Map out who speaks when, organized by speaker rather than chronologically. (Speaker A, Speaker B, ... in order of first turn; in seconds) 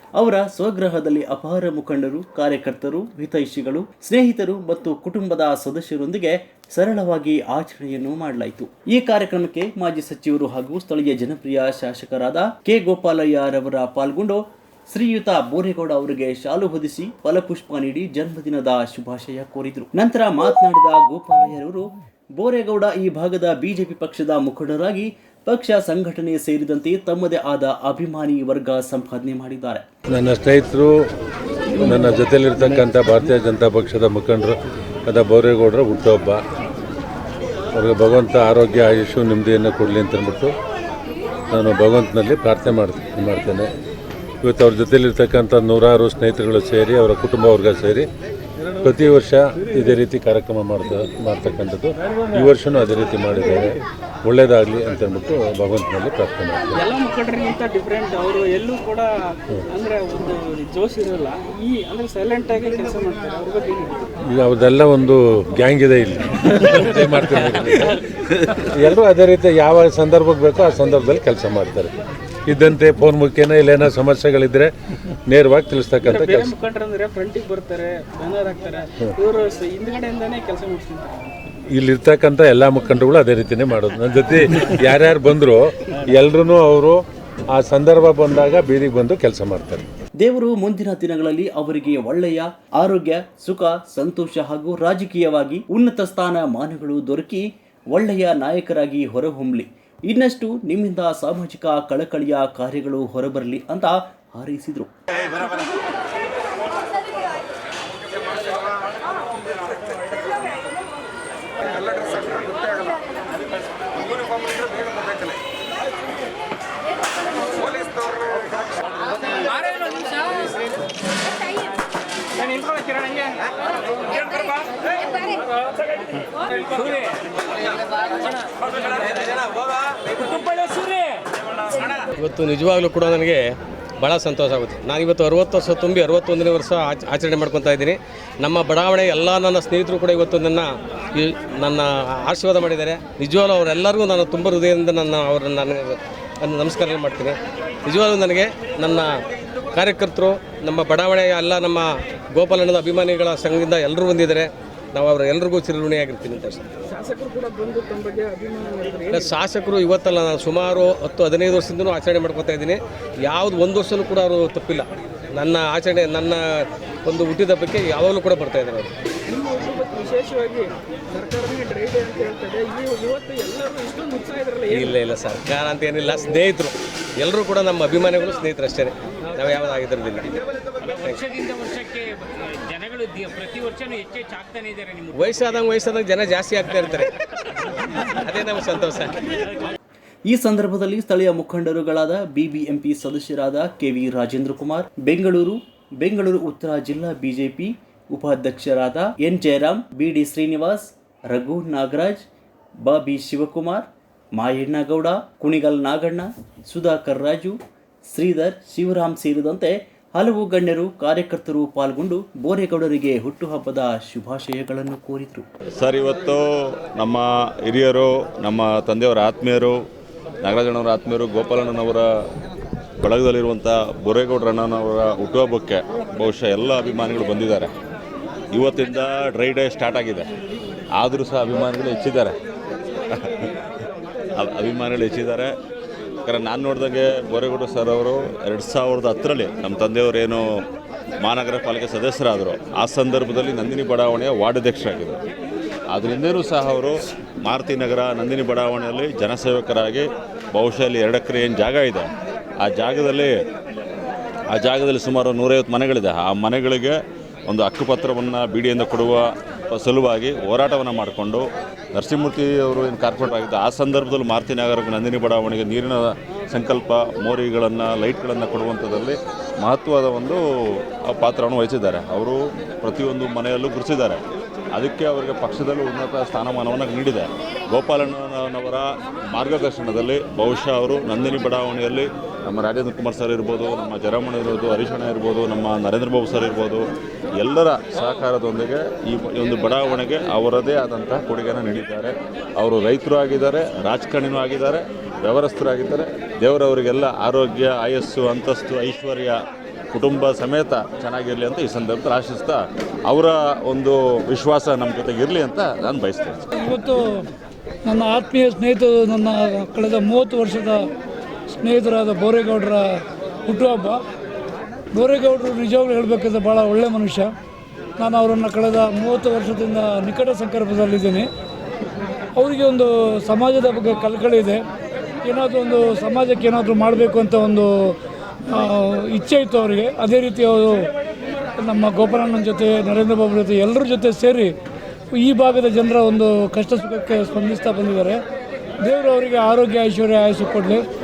Speaker A: 0.2-29.9, 90.2-104.9, 190.3-202.2, 202.8-207.6, 208.1-215.4
Speaker B: 30.1-31.1, 31.8-34.5, 35.1-36.4, 37.7-40.5, 41.5-43.7, 44.4-48.1, 48.8-56.8, 64.3-67.9, 68.5-71.9, 72.5-74.7, 75.3-76.5, 81.7-89.8
Speaker C: 56.8-64.0, 76.0-81.2, 156.9-159.3, 169.3-174.9
Speaker D: 131.9-149.1, 149.7-156.7, 159.1-168.9, 174.7-180.3, 180.8-181.2, 185.1-187.1, 188.1-189.1
Speaker E: 182.7-185.1
Speaker F: 215.8-219.8, 220.4-222.1, 223.0-227.7, 228.5-230.3, 230.9-232.4, 233.1-233.5, 234.3-235.5, 236.2-240.6, 241.2-245.2, 245.9-252.1, 252.6-253.3, 254.5-270.4, 271.0-274.2, 274.7-286.8, 287.4-299.4, 299.9-306.4
Speaker G: 306.5-307.2, 307.8-310.9, 311.5-314.0, 314.9-317.3, 318.0-321.3, 322.4-324.6, 325.2-327.9, 328.5-330.9, 331.6-334.5, 335.1-338.2, 338.8-340.8